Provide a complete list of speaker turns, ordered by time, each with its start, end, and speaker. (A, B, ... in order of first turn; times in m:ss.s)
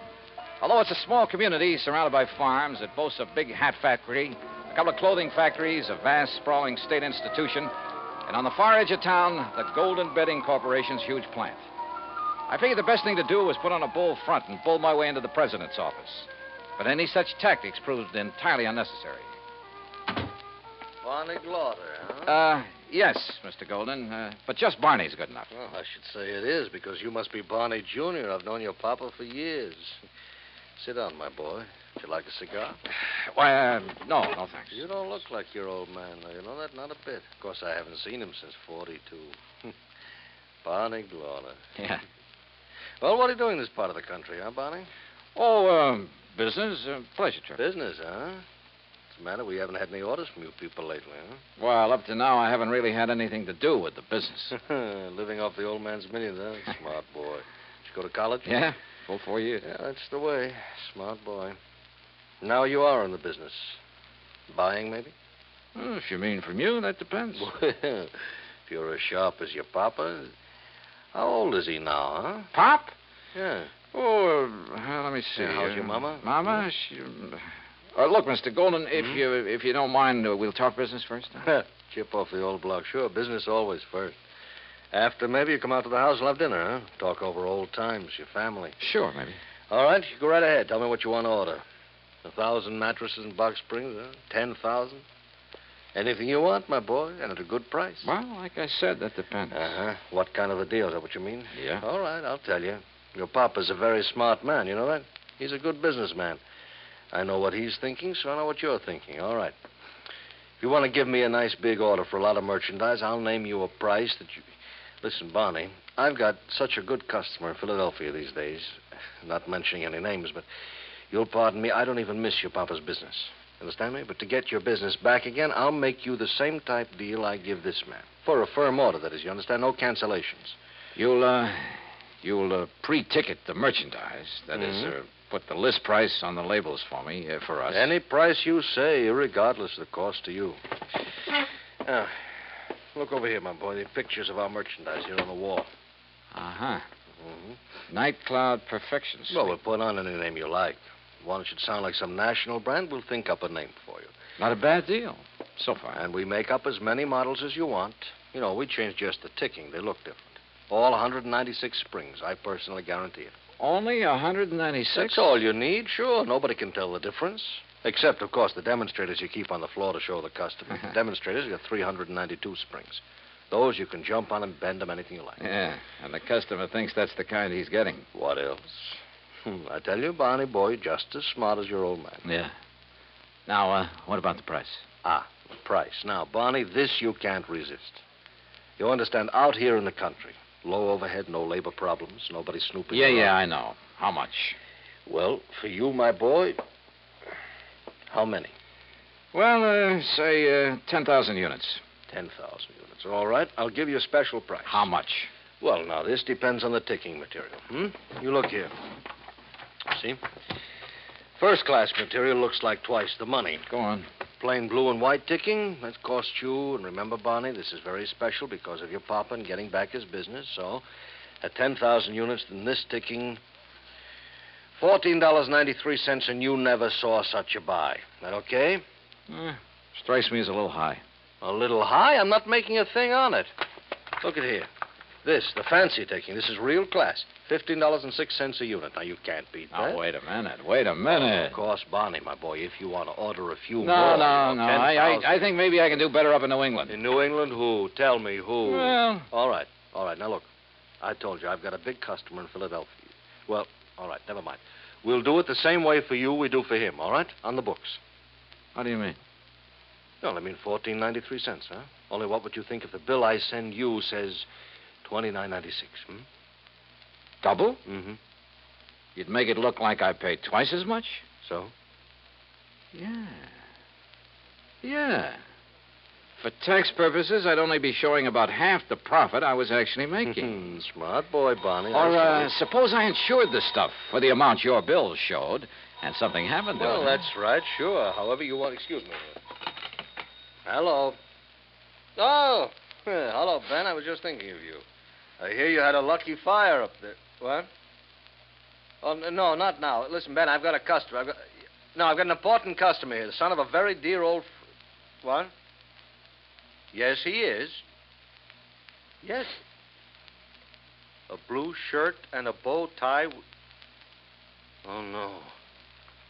0:00.6-0:07.7 A
0:08.3-0:11.6 A
0:12.5-0:19.3 A
0:21.0-0:22.4 B
0:22.2-0:25.5 A
0:25.5-0:30.0 B
0:30.8-0:32.8 B
0:33.2-0:34.8 A
0:34.7-0:39.7 B
0:40.6-0:41.6 B
0:41.8-0:42.0 A
0:43.0-0:44.9 B
0:45.4-0:47.6 A
0:47.6-0:48.5 B
0:49.1-0:51.4 B
0:51.6-0:54.5 A
0:54.5-0:58.6 B
0:58.5-0:59.6 A
0:59.6-1:01.6 B
1:02.4-1:03.8 B
1:04.5-1:05.1 B
1:05.8-1:07.5 A
1:07.4-1:10.3 B
1:11.1-1:12.5 B
1:12.5-1:12.9 A
1:13.3-1:13.7 B
1:13.9-1:21.5 A
1:15.4-1:16.6 B
1:19.0-1:19.2 B
1:21.4-1:24.2 B
1:24.9-1:28.8 B
1:28.8-1:29.4 A
1:29.7-1:31.6 B
1:32.2-1:35.0 B
1:35.9-1:38.1 B
1:38.0-1:39.7 A
1:39.5-1:46.4 B
1:41.5-1:41.8 A
1:47.1-1:49.6 B
1:50.6-1:54.5 B
1:55.0-2:00.5 B
2:01.1-2:10.6 B
2:11.0-2:17.9 A
2:14.6-2:14.9 B
2:17.7-2:20.6 B
2:21.8-2:22.4 B
2:22.9-2:25.7 B
2:26.3-2:26.8 A
2:27.2-2:27.6 B
2:27.9-2:29.6 A
2:29.3-2:34.1 B
2:34.4-2:36.0 A
2:35.9-2:43.4 B
2:43.6-2:45.3 A
2:45.0-2:55.4 B
2:55.4-2:58.1 A
2:58.1-3:02.2 B
3:02.2-3:02.5 A
3:03.5-3:04.8 A
3:05.0-3:08.0 B
3:08.8-3:13.3 B
3:12.9-3:14.6 A
3:15.1-3:16.6 B
3:18.1-3:18.5 B
3:19.3-3:21.8 A
3:22.1-3:24.9 B
3:24.7-3:25.3 A
3:25.6-3:28.7 B
3:29.9-3:30.2 B
3:31.4-3:33.6 B
3:33.7-3:34.1 A
3:34.4-3:40.8 B
3:41.4-3:43.4 B
3:44.8-3:48.8 B
3:49.3-3:51.0 A
3:51.4-3:53.5 B
3:54.2-3:54.7 B
3:55.2-4:00.0 B
3:59.7-4:01.6 A
4:01.1-4:05.5 B
4:03.8-4:07.0 A
4:06.9-4:10.5 B
4:08.6-4:09.3 A
4:11.0-4:18.0 B
4:18.8-4:19.2 A
4:20.2-4:24.5 B
4:25.0-4:26.3 B
4:27.4-4:27.8 A
4:27.9-4:28.2 B
4:29.2-4:31.2 A
4:31.4-4:31.7 B
4:32.9-4:33.5 A
4:34.8-4:35.4 A
4:36.4-4:40.8 A
4:40.2-4:42.5 B
4:41.9-4:47.2 A
4:46.8-4:49.4 B
4:50.6-4:51.2 B
4:52.2-4:54.8 B
4:55.4-4:57.7 B
4:59.0-5:04.6 B
5:05.2-5:05.5 B
5:06.9-5:07.8 B
5:09.2-5:09.6 B
5:11.3-5:13.4 B
5:14.8-5:15.5 B